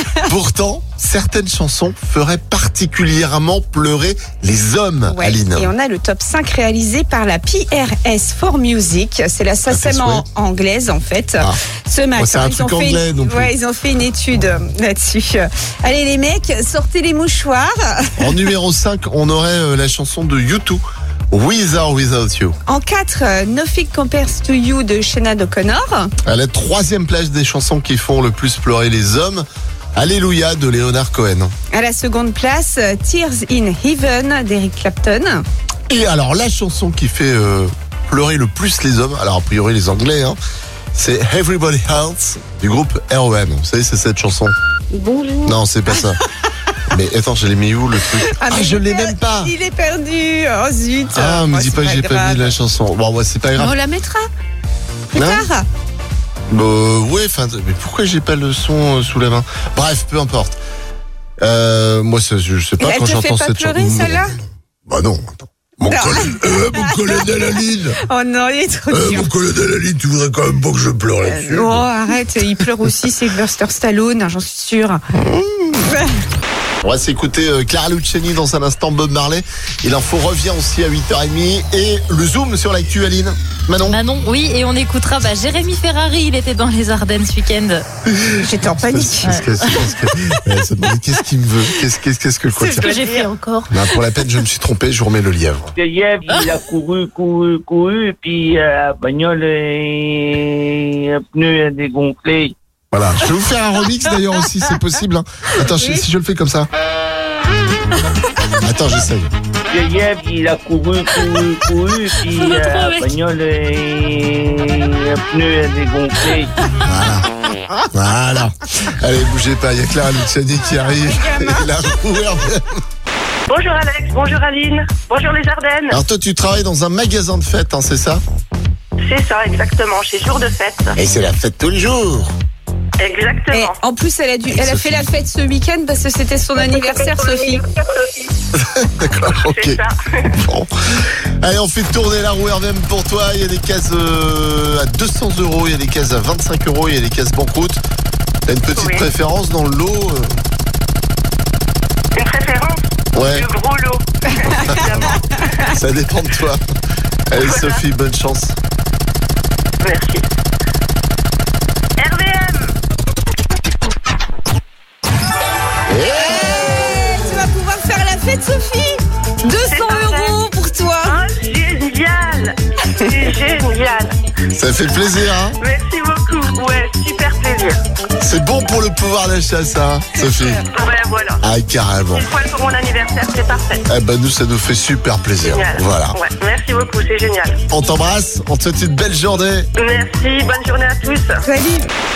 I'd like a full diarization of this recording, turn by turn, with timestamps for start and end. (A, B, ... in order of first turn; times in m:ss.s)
0:00.2-0:05.7 A
0:05.1-0:18.2 B
0:09.7-0:10.2 A
0:12.2-0:13.5 A
0:18.2-0:22.5 A
0:22.6-0:26.1 B
0:26.2-0:31.5 A
0:31.7-0:35.4 B
0:35.9-0:40.4 A
0:40.9-0:44.5 A
0:44.9-0:45.6 C
0:45.4-0:46.2 A
0:46.9-0:49.5 A
0:48.3-0:52.6 B
0:51.1-0:53.7 A
0:53.6-0:54.3 B
0:55.1-0:55.6 B
0:55.1-0:55.4 A
0:56.5-1:00.6 A
1:01.4-1:08.0 A
1:02.8-1:04.4 B
1:05.9-1:07.2 B
1:08.0-1:09.3 B
1:08.9-1:11.8 A
1:11.2-1:15.0 B
1:15.1-1:15.8 A
1:16.8-1:24.0 A
1:23.9-1:27.8 D
1:28.1-1:32.9 A
1:28.4-1:29.4 B
1:29.3-1:29.6 D
1:32.6-1:33.3 B
1:32.9-1:33.7 D
1:33.7-1:35.7 A
1:35.8-1:42.5 E
1:42.9-1:46.7 A
1:45.7-1:46.0 B
1:48.6-1:49.3 A
1:49.7-1:56.5 E
1:52.4-1:53.0 D
1:56.8-1:57.3 A
1:57.8-2:02.8 A
2:00.7-2:01.7 B
2:03.5-2:06.0 C
2:05.9-2:08.2 A
2:09.0-2:11.0 C
2:11.0-2:12.3 A
2:13.0-2:13.8 C
2:13.5-2:17.6 B
2:14.5-2:15.0 A
2:16.7-2:18.3 C
2:18.6-2:19.8 A
2:19.3-2:20.3 C
2:20.3-2:27.8 A
2:28.5-2:30.4 A
2:28.7-2:29.1 C
2:32.1-2:35.7 C
2:33.1-2:33.4 A
2:34.5-2:35.2 A
2:35.7-2:36.6 A
2:37.3-2:38.6 A
2:37.4-2:37.8 C
2:39.8-2:40.2 C
2:42.0-2:42.8 C
2:45.9-2:46.6 A
2:46.2-2:51.2 B
2:49.6-2:50.4 C
2:51.0-2:54.2 C
2:54.5-2:55.6 A
2:55.6-2:57.8 C
2:58.2-3:00.6 A
3:00.2-3:00.6 B
3:00.7-3:01.4 C
3:01.4-3:02.2 A
3:02.1-3:03.8 C
3:03.9-3:06.2 A
3:05.4-3:07.6 C
3:07.7-3:09.7 A
3:09.8-3:11.4 C
3:11.4-3:11.9 B